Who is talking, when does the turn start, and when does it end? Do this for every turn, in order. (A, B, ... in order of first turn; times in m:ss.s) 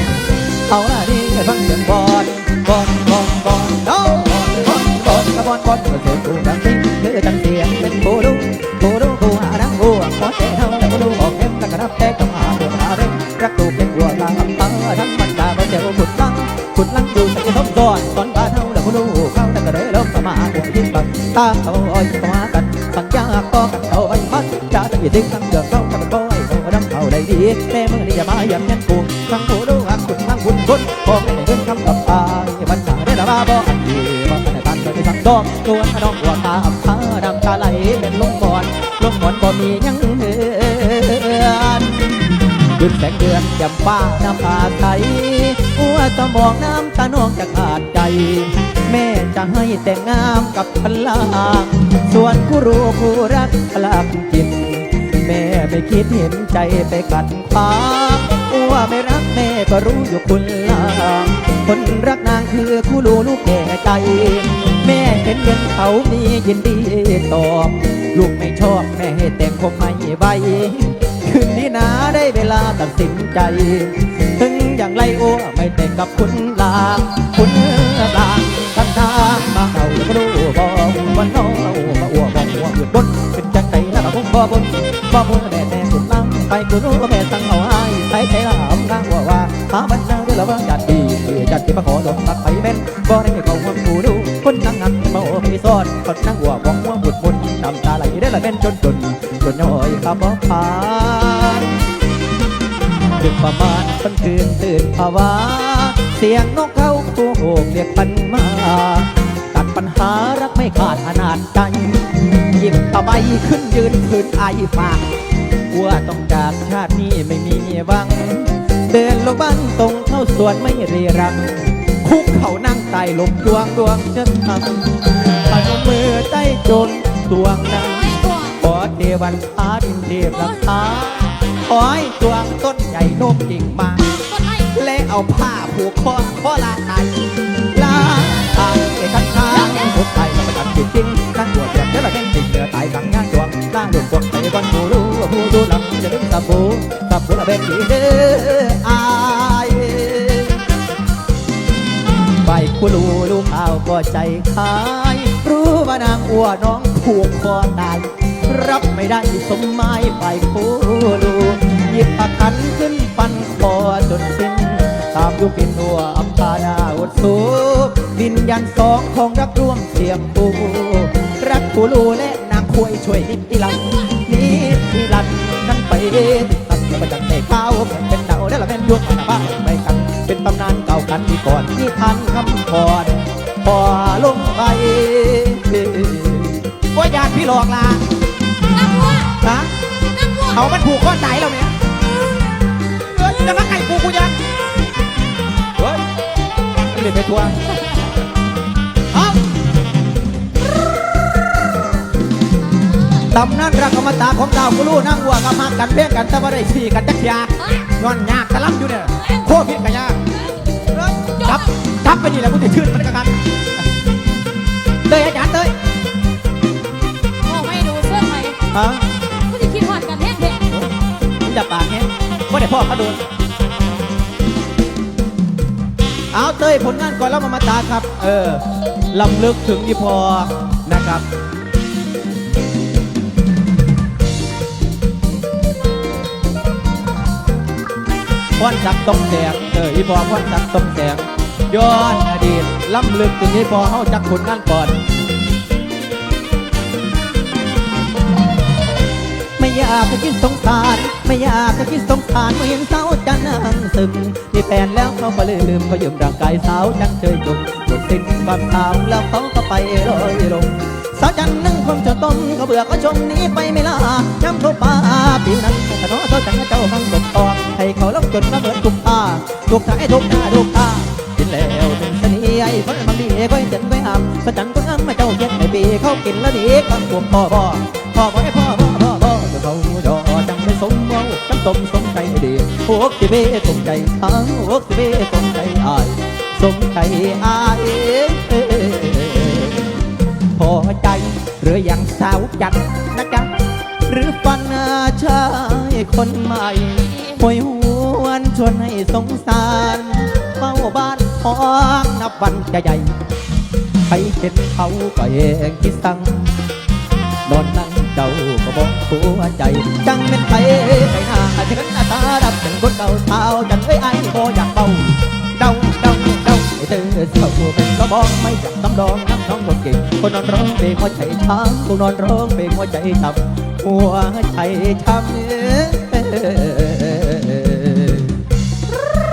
0:00.7-1:41.8 A
1:43.2-1:55.1 A
1:55.7-2:14.1 A
2:07.8-2:08.6 B
2:10.3-2:10.8 B
2:14.1-2:14.7 B
2:14.7-2:17.1 A
2:17.7-2:30.6 A
2:19.5-2:20.0 B
2:32.4-3:08.0 A
2:53.7-2:54.1 B
3:08.7-3:09.4 B
3:09.4-3:09.7 A
3:10.1-3:10.7 B
3:10.5-3:11.7 A
3:13.0-3:14.4 A
3:15.8-3:16.0 A
3:16.9-3:17.6 A
3:19.1-3:19.4 A
3:23.3-3:30.2 A
3:27.6-3:27.8 B
3:29.2-3:29.5 B
3:30.4-3:31.7 B
3:30.9-3:33.4 A
3:35.1-3:35.7 A
3:37.4-3:38.6 B
3:38.7-3:39.1 A
3:39.4-3:40.6 B
3:41.4-3:43.2 A
3:46.3-3:51.2 A
3:58.6-4:05.0 A
4:09.6-4:49.9 A
4:50.6-4:53.5 A
4:54.0-5:03.1 A
5:04.1-5:06.5 A
5:07.4-5:28.4 A